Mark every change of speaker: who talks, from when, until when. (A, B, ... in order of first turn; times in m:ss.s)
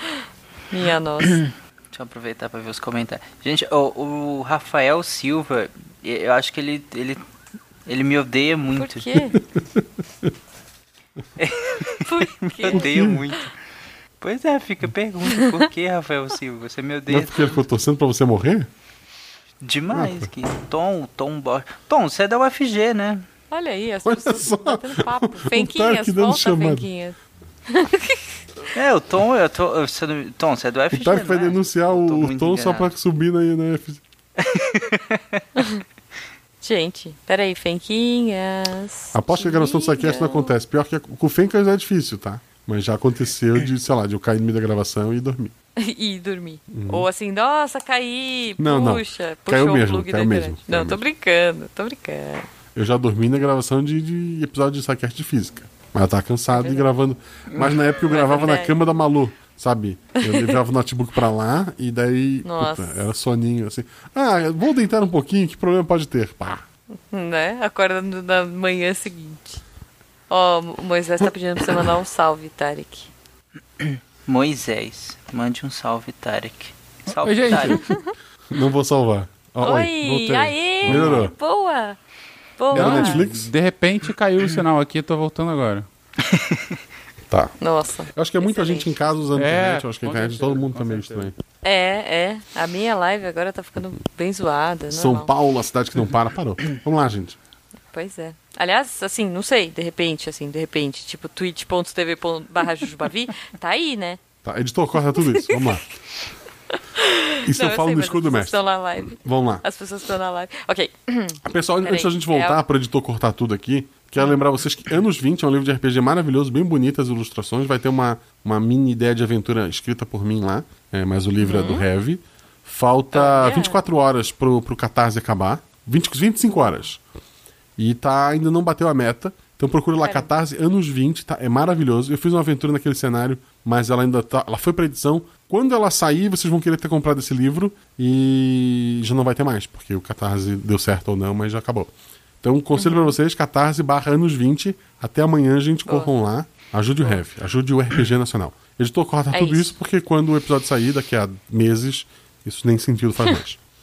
0:00.7-0:01.4 A
0:01.9-0:07.2 B
0:07.8-0:09.1 B
0:08.8-0:09.4 A
0:11.4-0:13.5 B
0:12.0-0:12.9 A
0:12.7-0:13.2 C
0:14.2-0:17.6 B
0:17.1-0:18.7 C
0:19.6-0:23.2 B
0:19.9-0:20.3 C
0:23.5-0:27.2 A
0:24.0-0:26.9 C
0:27.7-0:28.2 A
0:28.7-0:32.9 B
0:30.9-0:34.0 C
0:34.4-0:35.2 B
0:36.6-0:40.5 A
0:39.1-0:45.5 C
0:45.8-0:52.5 A
0:46.7-0:47.1 C
0:48.6-0:51.0 C
0:52.7-1:06.6 C
0:56.5-0:56.9 A
0:58.1-0:58.7 A
1:00.2-1:00.6 A
1:02.4-1:03.0 A
1:07.1-1:09.6 A
1:10.3-1:13.1 A
1:14.2-1:17.8 B
1:17.1-1:17.9 D
1:18.5-1:21.3 C
1:19.6-1:22.0 A
1:20.8-1:21.3 D
1:22.6-1:23.2 A
1:22.7-1:23.5 C
1:22.7-1:25.9 D
1:27.6-1:29.2 A
1:28.1-1:31.3 C
1:29.3-1:31.3 D
1:31.6-1:35.3 A
1:34.9-1:37.4 C
1:37.9-1:44.2 A
1:44.4-1:45.8 C
1:45.1-1:45.5 A
1:47.0-1:52.6 A
1:47.4-1:48.6 C
1:49.2-1:49.6 C
1:51.4-2:07.0 C
2:01.4-2:01.8 A
2:03.1-2:03.8 A
2:07.8-2:33.6 C
2:10.0-2:10.3 A
2:22.8-2:23.1 A
2:29.3-2:29.7 A